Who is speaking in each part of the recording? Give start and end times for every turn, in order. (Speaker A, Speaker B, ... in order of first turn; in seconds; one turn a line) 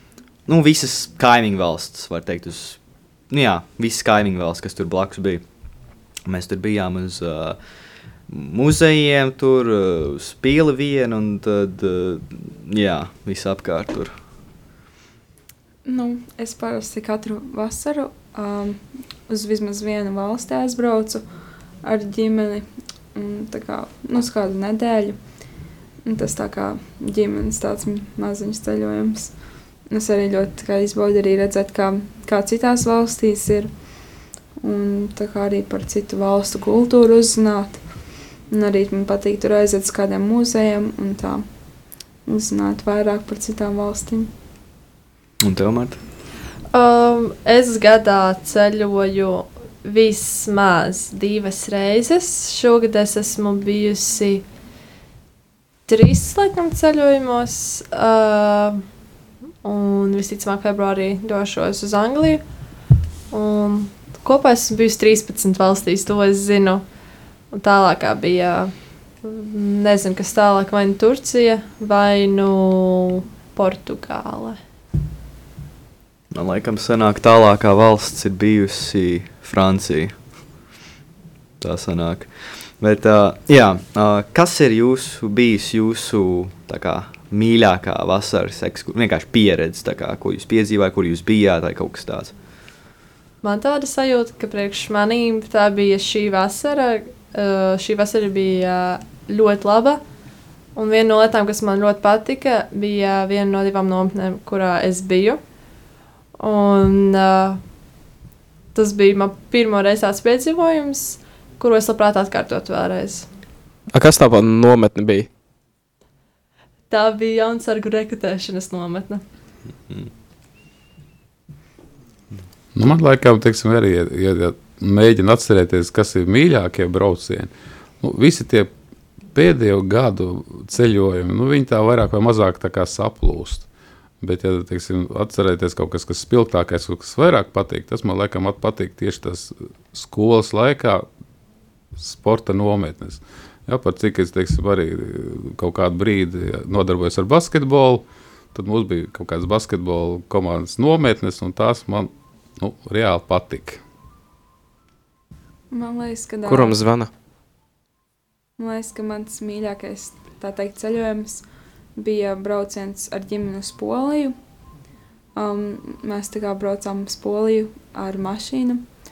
Speaker A: 0.5-5.5
Speaker A: 6.3-7.6
Speaker A: 8.3-14.1
Speaker B: 15.8-21.2
Speaker B: 21.8-25.2
Speaker B: 26.1-29.3
Speaker B: 29.9-33.7
Speaker B: 34.6-37.8
Speaker B: 38.5-41.5
Speaker B: 42.3-44.3
Speaker A: 45.4-46.0
Speaker C: 46.7-54.5
Speaker C: 55.9-58.8
Speaker C: 59.6-62.4
Speaker C: 63.3-66.8
Speaker C: 67.5-74.6
Speaker A: 76.3-80.2
Speaker A: 81.6-92.3
Speaker C: 93.4-100.0
Speaker C: 100.8-105.4
Speaker C: 106.4-107.6
Speaker C: 108.7-113.3
Speaker D: 113.9-115.3
Speaker C: 116.9-119.2
Speaker E: 122.7-128.7
Speaker E: 129.3-133.7
Speaker E: 134.2-141.1
Speaker E: 142.0-153.8
Speaker B: 155.7-156.8
Speaker D: 156.5-157.1
Speaker B: 158.6-161.4
Speaker B: 162.0-164.3
Speaker B: 165.3-168.9